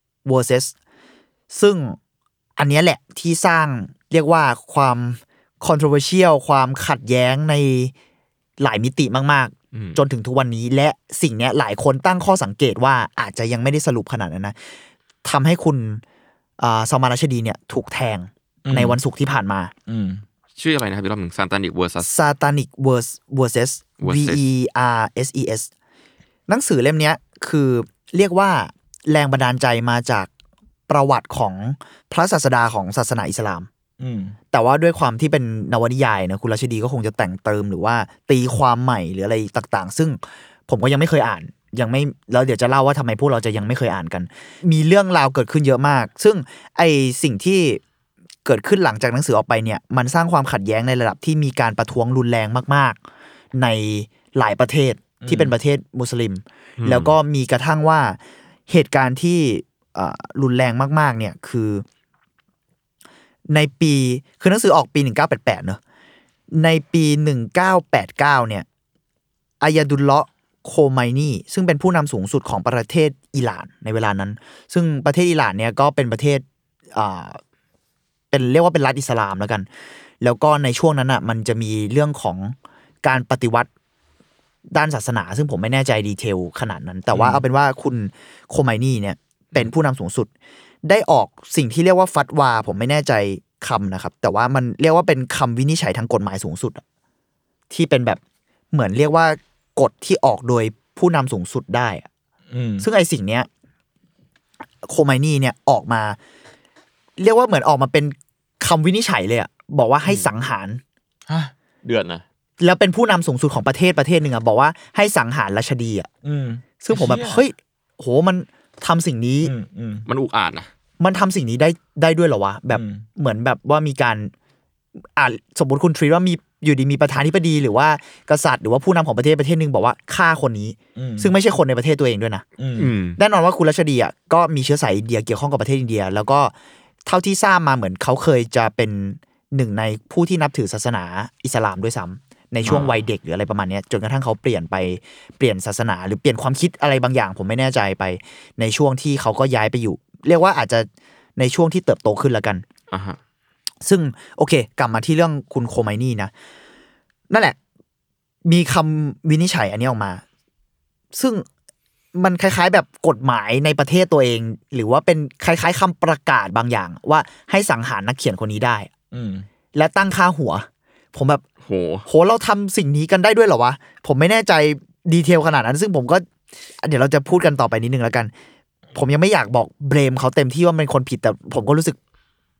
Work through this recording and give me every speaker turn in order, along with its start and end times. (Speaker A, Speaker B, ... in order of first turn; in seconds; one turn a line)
Speaker A: 0.2-0.7
Speaker A: 1.5-2.0
Speaker A: 2.6-7.9
Speaker A: 8.6-14.6
Speaker B: 9.7-10.0
Speaker A: 15.2-16.0
Speaker A: 16.6-19.7
Speaker C: 18.6-19.0
Speaker C: 19.9-20.2
Speaker B: 20.6-22.1
Speaker A: 22.0-25.7
Speaker B: 24.0-24.4
Speaker A: 26.5-30.3
Speaker A: 30.9-33.7
Speaker C: 34.0-34.4
Speaker A: 34.5-47.8
Speaker A: 48.4-53.0
Speaker A: 53.5-61.9
Speaker C: 55.2-55.5
Speaker B: 56.8-57.1
Speaker A: 63.5-65.8
Speaker A: 66.5-68.7
Speaker A: 69.6-77.4
Speaker A: 78.3-79.7
Speaker A: 80.2-83.7
Speaker A: 84.7-90.3
Speaker C: 87.1-87.4
Speaker A: 90.8-96.8
Speaker A: 97.7-98.2
Speaker A: 98.7-102.1
Speaker C: 102.5-102.9
Speaker A: 102.8-103.5
Speaker A: 104.8-106.2
Speaker A: 107.2-110.8
Speaker C: 111.3-111.5
Speaker B: 111.8-112.2
Speaker A: 112.6-116.1
Speaker C: 116.2-117.4
Speaker A: 116.8-119.5
Speaker C: 119.4-120.1
Speaker B: 120.1-120.7
Speaker A: 121.0-124.3
Speaker C: 122.7-123.0
Speaker A: 125.2-132.4
Speaker C: 130.9-131.3
Speaker C: 132.6-132.9
Speaker B: 132.8-133.2
Speaker A: 133.2-136.5
Speaker A: 137.0-152.6
Speaker B: 152.9-153.2
Speaker A: 153.8-156.3
Speaker A: 157.3-157.6
Speaker A: 158.4-160.2
Speaker A: 161.1-161.4
Speaker A: 162.1-168.9
Speaker C: 169.1-169.4
Speaker A: 169.7-171.4
Speaker B: 171.6-172.0
Speaker A: 172.1-176.2
Speaker A: 176.8-178.3
Speaker A: 178.9-182.0